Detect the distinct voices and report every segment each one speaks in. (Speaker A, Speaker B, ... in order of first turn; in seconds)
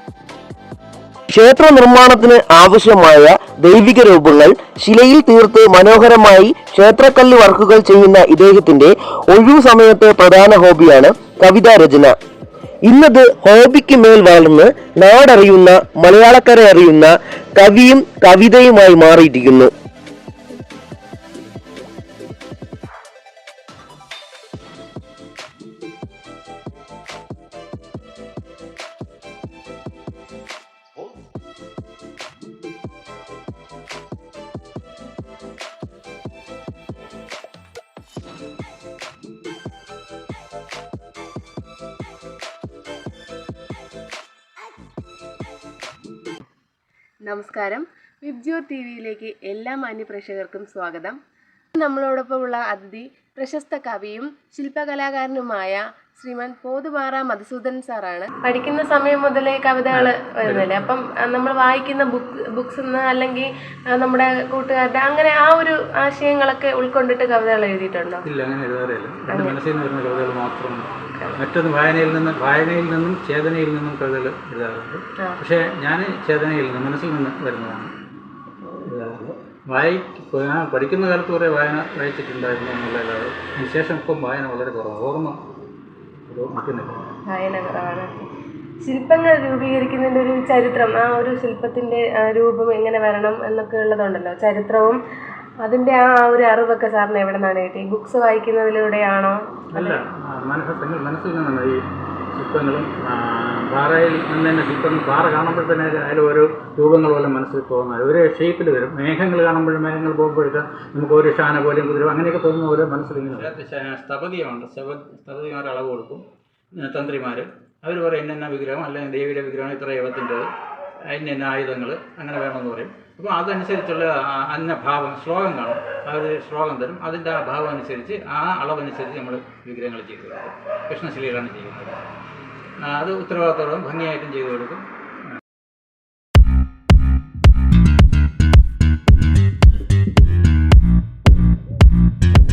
Speaker A: 1.3-12.1, 12.8-19.7
Speaker B: 47.2-51.2, 51.7-68.2, 69.3-69.5, 78.6-78.9, 87.3-88.3, 88.8-95.0, 95.6-100.0
Speaker C: 59.9-60.9, 68.2-77.9, 78.8-85.4, 86.3-87.1, 99.7-116.2, 116.8-120.5, 121.1-132.0, 132.8-134.8